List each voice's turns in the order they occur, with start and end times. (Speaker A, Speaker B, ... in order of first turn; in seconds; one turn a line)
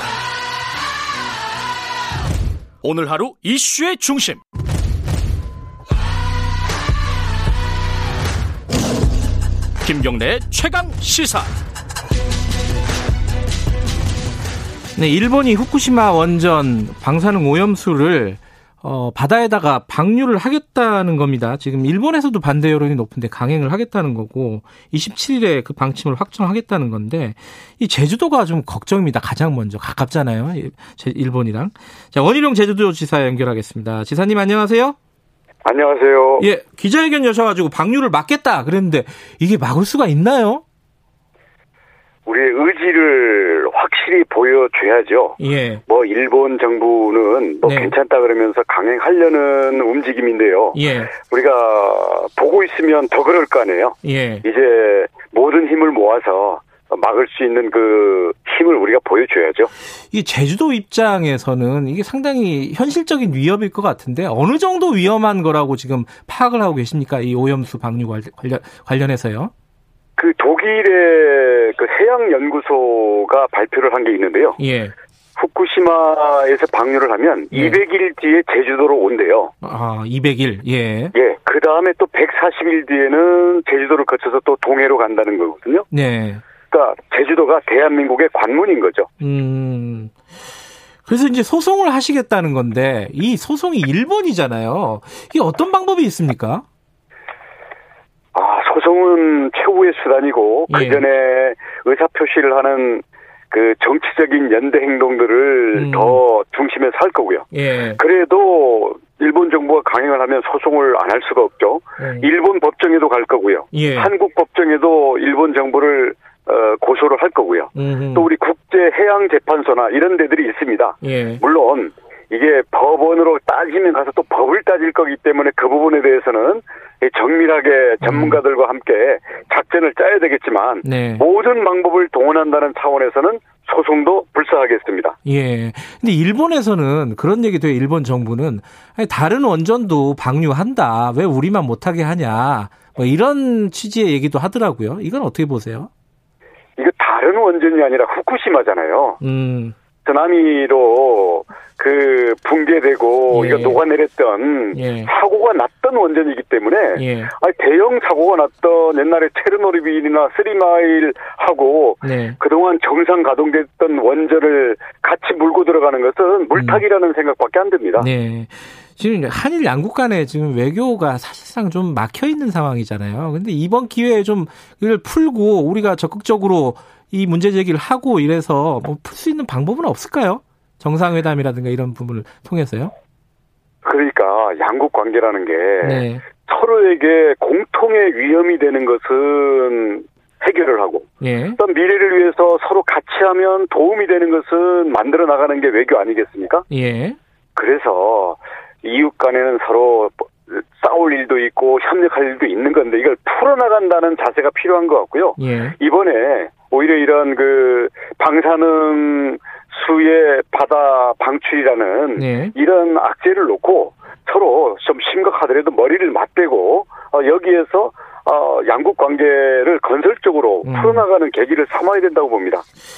Speaker A: 2.8-4.4
Speaker A: 9.8-11.5
Speaker B: 15.0-35.0
Speaker C: 35.6-36.5
Speaker B: 36.4-40.6
Speaker C: 42.3-59.7
Speaker B: 45.4-45.8
Speaker B: 47.6-47.9
Speaker B: 50.7-51.1
Speaker B: 54.0-54.5
Speaker B: 60.1-69.5
Speaker C: 70.2-74.6
Speaker B: 74.6-74.9
Speaker C: 75.4-79.5
Speaker B: 77.5-77.8
Speaker B: 79.6-81.2
Speaker C: 81.1-85.9
Speaker B: 85.9-86.4
Speaker C: 86.7-89.1
Speaker B: 89.2-90.1
Speaker B: 91.1-96.6
Speaker C: 98.3-135.2
Speaker B: 100.7-101.0
Speaker B: 105.8-106.2
Speaker B: 107.5-108.0
Speaker B: 112.0-112.3
Speaker B: 113.7-114.1
Speaker B: 117.8-118.3
Speaker B: 121.0-121.4
Speaker B: 128.0-128.4
Speaker B: 130.8-131.2
Speaker B: 135.2-145.9
Speaker C: 146.8-149.2
Speaker B: 149.2-149.8
Speaker C: 150.1-168.1
Speaker B: 153.3-153.8
Speaker B: 154.7-155.1
Speaker B: 157.0-157.3
Speaker B: 162.0-162.4
Speaker B: 166.5-166.8
Speaker B: 168.0-182.9
Speaker C: 183.8-196.7
Speaker B: 185.8-186.2
Speaker B: 191.2-191.6
Speaker B: 196.7-197.2
Speaker C: 197.6-222.6
Speaker B: 205.4-205.8
Speaker B: 212.2-212.5
Speaker B: 220.6-221.1